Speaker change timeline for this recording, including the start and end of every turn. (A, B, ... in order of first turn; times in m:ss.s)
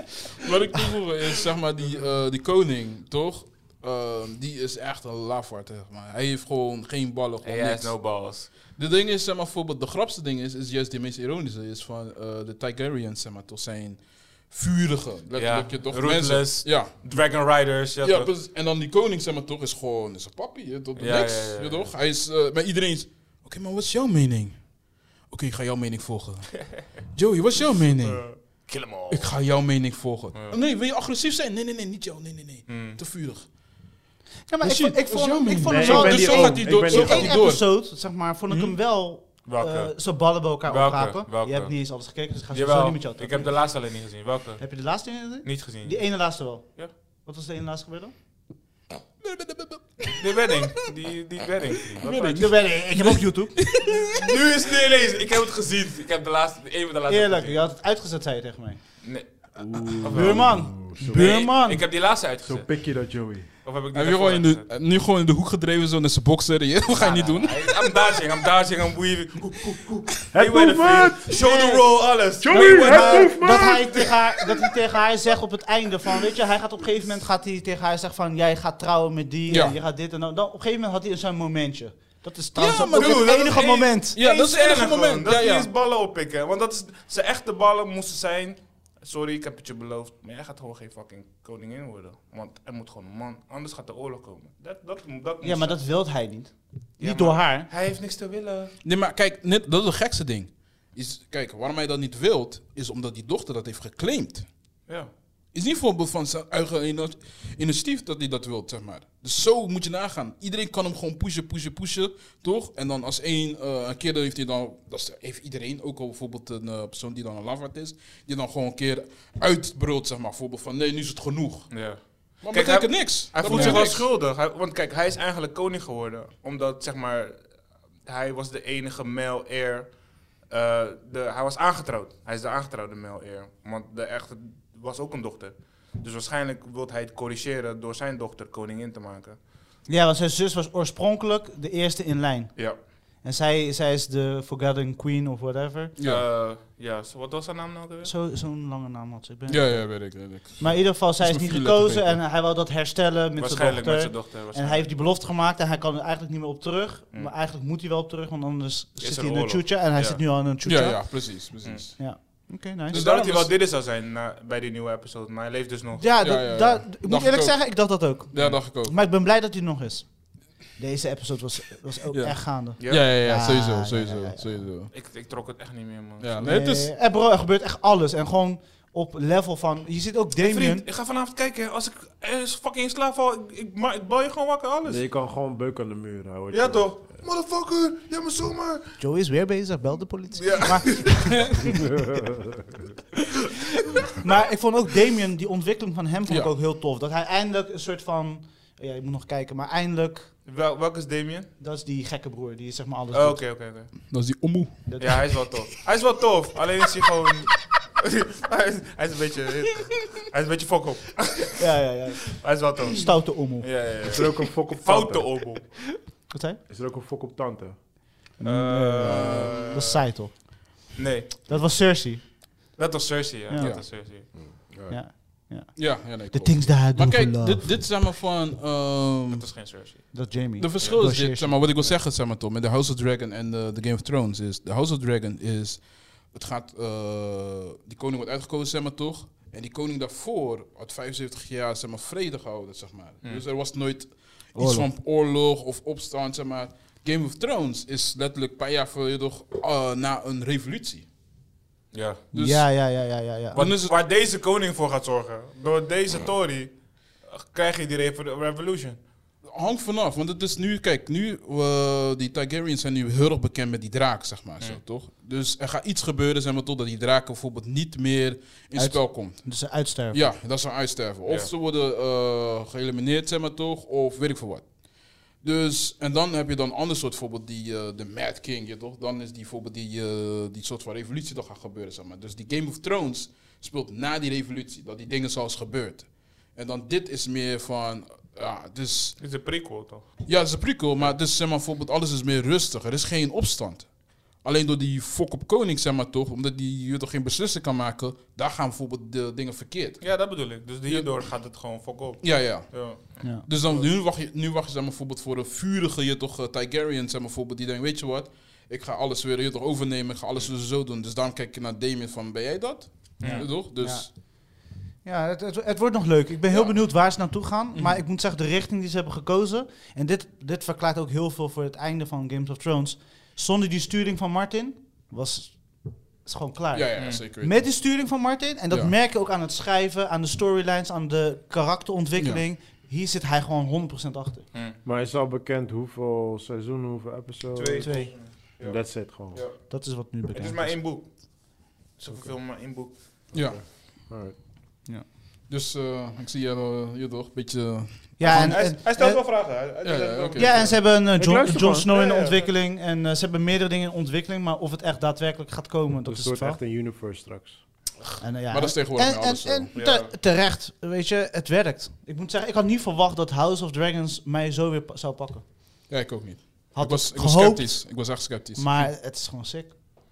0:00.4-0:08.2 A
0:07.4-0:08.5 B
0:08.7-0:17.4 A
0:15.3-0:18.3 B
0:18.0-0:33.6 A
0:21.0-0:21.9 B
0:27.6-0:29.3 B
0:30.3-0:30.6 B
0:32.7-0:33.0 B
0:34.5-0:43.6 C
0:34.6-0:37.8 A
0:35.7-0:37.4 D
0:38.5-0:38.8 A
0:39.4-0:40.0 B
0:40.6-0:42.0 B
0:42.5-0:44.7 B
0:44.6-0:48.1 C
0:45.4-0:46.9 B
0:49.2-0:50.3 A
0:50.2-0:52.5 B
0:52.0-0:54.1 A
0:52.3-0:53.6 C
0:54.0-0:57.6 B
0:57.1-0:58.8 C
0:59.0-0:59.3 B
0:59.6-1:01.3 D
0:59.8-1:02.8 B
1:00.1-1:01.9 C
1:02.4-1:03.5 D
1:03.6-1:04.7 B
1:03.9-1:07.9 A
1:06.9-1:14.2 B
1:10.3-1:11.3 D
1:11.3-1:11.8 A
1:12.4-1:14.0 D
1:12.5-1:24.2 C
1:19.5-1:19.8 A
1:22.6-1:25.7 A
1:22.9-1:35.8 B
1:35.4-1:37.7 C
1:37.0-1:38.8 B
1:38.8-1:44.5 A
1:45.5-2:04.1 A
2:01.7-2:07.5 B
2:03.5-2:03.8 C
2:08.0-2:19.4 B
2:19.9-2:25.9 C
2:26.0-2:26.2 A
2:26.0-2:28.1 B
2:28.0-2:41.2 C
2:29.5-2:32.2 A
2:33.4-2:34.9 B
2:39.0-2:40.3 B
2:40.6-2:42.1 A
2:41.6-2:42.3 B
2:42.0-2:43.0 C
2:42.9-2:43.6 A
2:42.9-2:46.1 B
2:46.0-2:54.6 C
2:46.2-2:49.0 A
2:52.1-2:54.9 A
2:52.8-2:53.1 B
2:54.9-2:56.4 B
2:56.2-2:56.9 A
2:56.4-3:00.8 C
3:00.4-3:05.0 B
3:04.9-3:07.0 D
3:06.5-3:09.0 B
3:09.0-3:11.8 C
3:10.4-3:11.4 B
3:14.1-3:20.3 C
3:20.5-3:21.5 B
3:21.6-3:23.4 C
3:23.1-3:23.9 B
3:24.1-3:25.2 A
3:24.9-3:25.2 C
3:25.0-3:31.6 B
3:31.6-3:33.8 C
3:32.3-3:35.9 B
3:34.0-3:35.3 D
3:36.1-3:36.6 C
3:36.7-3:37.8 D
3:38.4-3:41.0 C
3:38.4-3:40.0 B
3:39.0-3:39.8 A
3:41.0-3:41.5 B
3:41.5-3:42.4 C
3:42.8-3:44.3 B
3:43.6-3:43.8 A
3:44.3-3:45.0 D
3:44.9-3:47.9 C
3:45.8-3:49.4 A
3:49.3-3:51.0 B
3:50.1-3:51.6 C
3:50.6-4:11.1 A
4:04.6-4:04.9 C
4:11.9-4:12.2 B
4:12.3-4:13.9 A
4:12.3-4:13.6 C
4:13.5-4:19.0 B
4:19.4-4:49.2 A
4:28.8-4:30.3 C
4:31.3-4:31.5 B
4:49.2-4:50.3 B
4:50.2-5:00.2 A
5:00.0-5:03.9 B
5:00.9-5:01.5 A
5:02.2-5:14.1 A
5:13.2-5:13.5 B
5:13.2-5:34.5 C
5:16.5-5:16.8 A
5:17.7-5:18.0 A
5:26.7-5:27.6 A
5:27.0-5:27.2 B
5:34.8-5:38.0 D
5:37.6-5:43.6 B
5:37.8-5:38.1 C
5:38.6-5:39.4 D
5:39.7-5:40.8 C
5:43.3-5:43.7 A
5:43.3-5:44.4 D
5:45.5-5:48.7 A
5:48.2-5:49.2 C
5:48.3-5:50.9 B
5:49.8-5:50.8 A
5:50.4-5:56.6 C
5:51.1-5:51.9 D
5:51.8-5:52.5 B
5:56.1-5:57.6 D
5:58.2-5:59.7 A
5:58.2-6:05.5 C
5:59.8-6:00.1 B
6:05.9-6:08.9 A
6:06.7-6:09.7 C